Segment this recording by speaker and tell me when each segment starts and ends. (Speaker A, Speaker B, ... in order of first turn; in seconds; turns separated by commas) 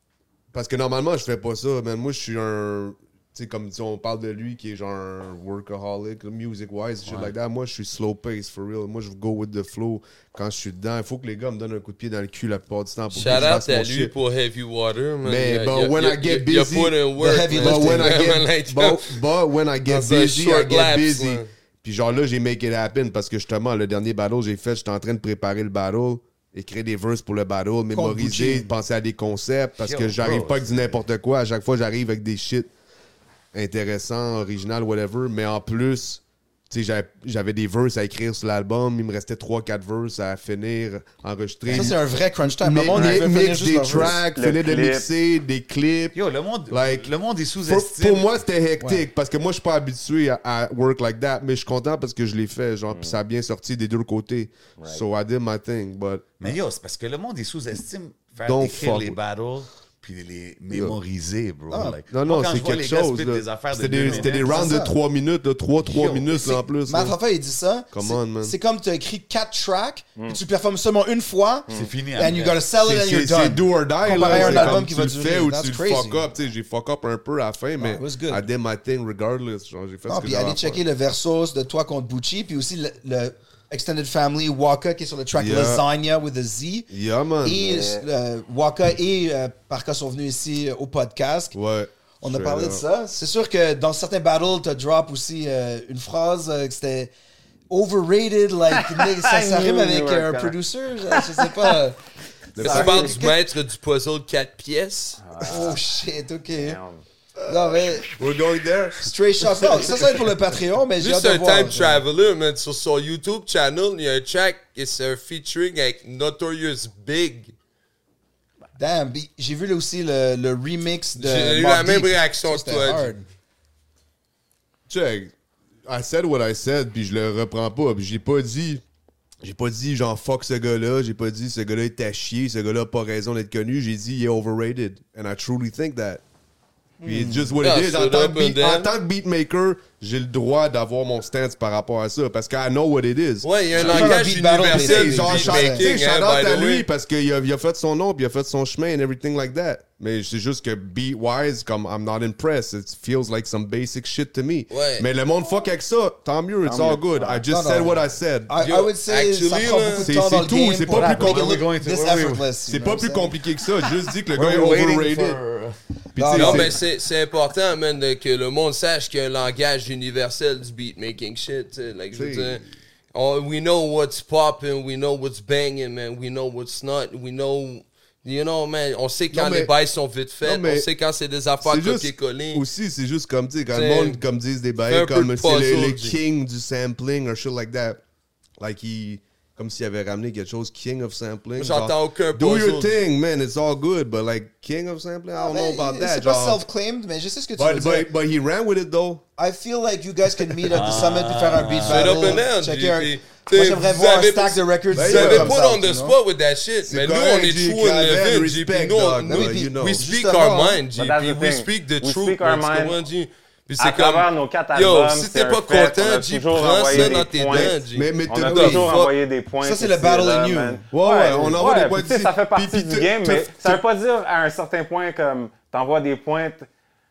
Speaker A: 0.5-14.1, Speaker B: 7.0-7.3, Speaker C: 13.1-19.1, Speaker A: 15.2-32.7, Speaker D: 17.2-18.3, Speaker C: 19.8-21.5, Speaker D: 27.9-28.7, Speaker B: 29.8-31.0, Speaker A: 33.5-42.0, Speaker D: 41.7-44.2, Speaker A: 42.6-46.1, Speaker E: 44.3-45.1, Speaker B: 46.1-48.3, Speaker A: 46.7-47.1, Speaker A: 47.6-56.4, Speaker E: 52.9-53.2, Speaker E: 54.8-55.0, Speaker B: 56.4-64.7, Speaker A: 58.4-59.2, Speaker D: 61.7-62.0, Speaker A: 62.1-67.2, Speaker D: 64.0-64.9, Speaker B: 65.8-66.6, Speaker D: 66.8-76.2, Speaker A: 67.9-68.5, Speaker B: 71.7-72.6, Speaker A: 72.8-80.8, Speaker D: 77.8-78.4, Speaker D: 80.1-86.9, Speaker A: 85.3-85.8, Speaker A: 86.9-87.7, Speaker D: 87.4-91.6, Speaker E: 87.5-88.0, Speaker A: 91.5-92.8, Speaker D: 92.2-97.1, Speaker D: 97.7-102.0, Speaker E: 98.7-101.7, Speaker A: 102.5-103.2, Speaker D: 102.6-103.4, Speaker C: 102.6-105.2, Speaker E: 102.6-103.2, Speaker E: 105.2-105.8, Speaker D: 105.4-106.8, Speaker E: 106.5-107.0, Speaker A: 107.4-109.9, Speaker D: 107.5-108.1, Speaker D: 109.0-112.0, Speaker C: 111.0-117.5, Speaker D: 118.8-123.3, Speaker C: 121.2-123.1, Speaker A: 124.9-125.3, Speaker A: 125.8-128.8, Speaker A: 129.4-136.2, Speaker D: 137.0-137.6, Speaker A: 137.0-158.5, Speaker C: 137.6-138.9, Speaker C: 143.4-146.8, Speaker D: 143.8-145.9, Speaker C: 154.7-155.1, Speaker E: 156.6-157.4, Speaker D: 157.5-163.3, Speaker C: 158.6-160.1, Speaker A: 160.0-161.6, Speaker B: 160.9-162.5, Speaker A: 162.7-165.4, Speaker B: 164.3-165.8, Speaker D: 166.1-166.7, Speaker A: 166.1-166.8, Speaker C: 166.3-182.6, Speaker A: 172.1-172.7, Speaker A: 179.3-179.7, Speaker A: 180.4-180.9, Speaker A: 181.6-188.0, Speaker C: 183.7-184.2, Speaker C: 184.9-186.2, Speaker A: 188.6-196.6, Speaker C: 191.6-192.9, Speaker D: 195.4-198.1, Speaker A: 197.6-199.2, Speaker D: 199.4-206.2, Speaker B: 200.7-202.4, Speaker C: 201.8-219.1, Speaker A: 204.9-205.6, Speaker A: 206.8-210.8, Speaker D: 209.2-210.7, Speaker E: 210.9-213.0, Speaker E: 213.8-217.8, Speaker A: 216.9-218.9, Speaker E: 218.3-226.7, Speaker D: 219.6-220.8, Speaker A: 220.9-223.8